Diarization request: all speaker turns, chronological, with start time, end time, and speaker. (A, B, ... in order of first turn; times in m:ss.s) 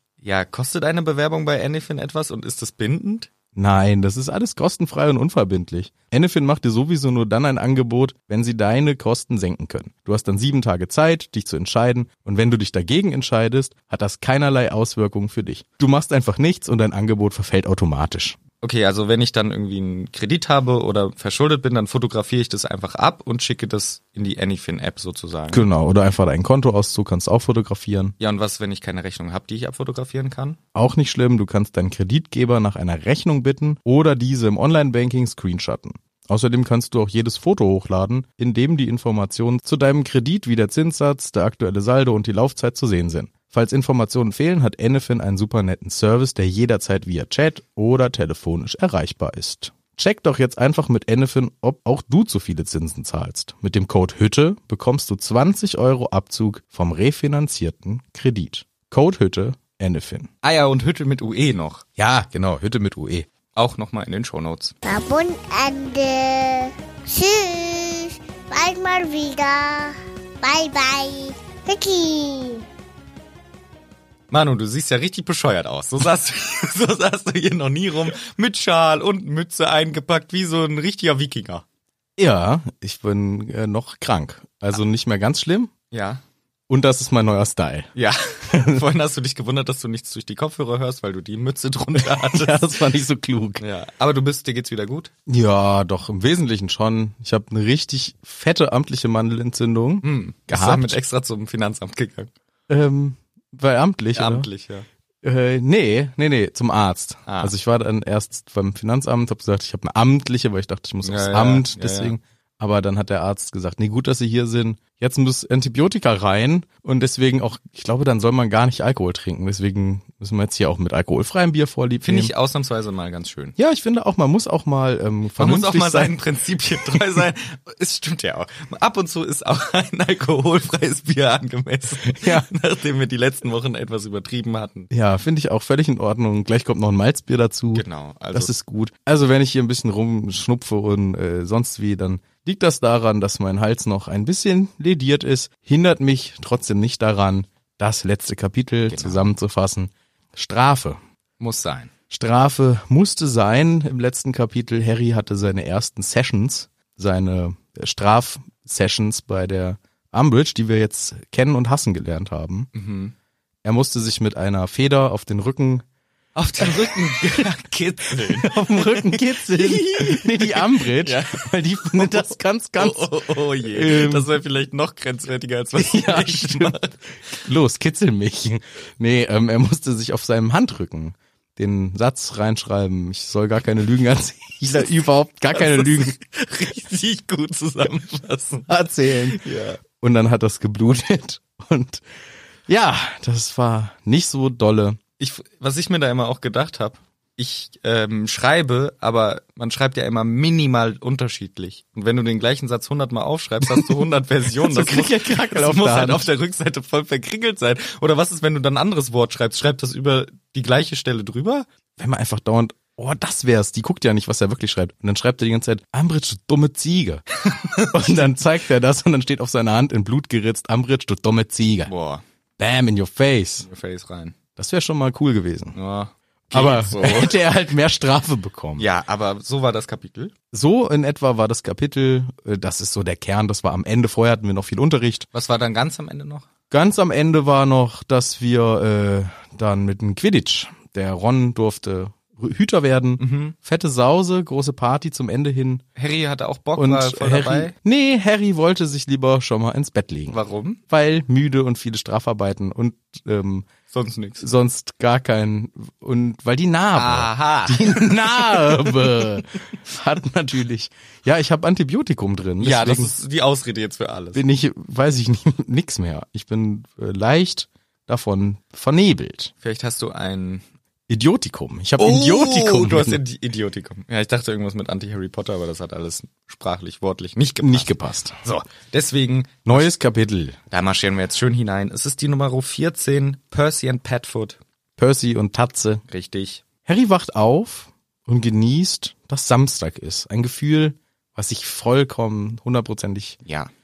0:00.2-0:03.3 A
0:03.6-0:18.4 B
0:18.6-0:25.6 A
0:25.5-0:28.1 B
0:28.2-0:30.6 A
0:30.7-1:00.3 B
1:00.4-1:01.8 A
1:02.0-1:03.3 B
1:03.6-1:04.7 A
1:04.8-1:12.6 C
1:14.3-1:21.6 A
1:22.2-1:25.7 B
1:25.9-1:26.2 A
1:26.7-1:27.9 B
1:28.0-1:32.8 A
1:28.5-1:28.8 B
1:32.0-1:33.6 B
1:33.6-1:35.1 A
1:35.3-1:41.0 B
1:40.0-1:42.3 A
1:42.7-1:44.5 B
1:44.2-1:44.9 A
1:45.2-2:02.3 B
1:47.3-1:47.5 A
1:51.0-1:52.2 A
2:02.0-2:03.6 A
2:03.6-2:06.1 B
2:05.4-2:14.9 A
2:12.1-2:12.5 B
2:14.9-2:31.0 B
2:17.8-2:18.5 A
2:28.9-2:29.2 A
2:31.4-2:31.9 A
2:32.1-2:42.7 B
2:42.7-2:43.1 A
2:43.6-2:45.8 B
2:46.4-2:57.4 A
2:48.3-2:54.3 B
2:55.8-2:56.8 B
2:57.4-3:06.2 B
3:05.5-3:09.8 A
3:08.7-3:12.0 B
3:12.7-3:15.0 B
3:15.2-3:31.7 A
3:23.6-3:23.9 B
3:24.6-3:26.2 B
3:32.0-3:37.2 B
3:37.4-3:38.2 A
3:37.9-3:41.9 B
3:41.9-3:42.2 A
3:42.6-3:43.7 B
3:43.6-3:44.4 A
3:44.6-3:45.8 B
3:45.8-3:47.4 A
3:46.5-3:48.9 B
3:48.8-3:50.3 A
3:50.5-3:55.3 B
3:55.3-3:56.5 A
3:56.7-4:05.8 B
4:03.2-4:03.6 A
4:06.0-4:07.7 A
4:06.8-4:10.4 B
4:10.3-4:10.8 A
4:10.9-4:13.7 B
4:13.9-4:14.4 A
4:14.4-4:23.1 B
4:16.9-4:19.4 A
4:22.6-4:24.4 A
4:24.3-4:29.5 B
4:29.6-4:30.6 A
4:31.1-4:33.2 B
4:32.0-4:37.9 A
4:37.6-4:38.4 B
4:38.4-4:39.9 A
4:39.6-4:40.6 B
4:40.7-4:44.6 A
4:45.0-4:46.0 B
4:46.1-4:46.6 A
4:46.8-4:53.4 B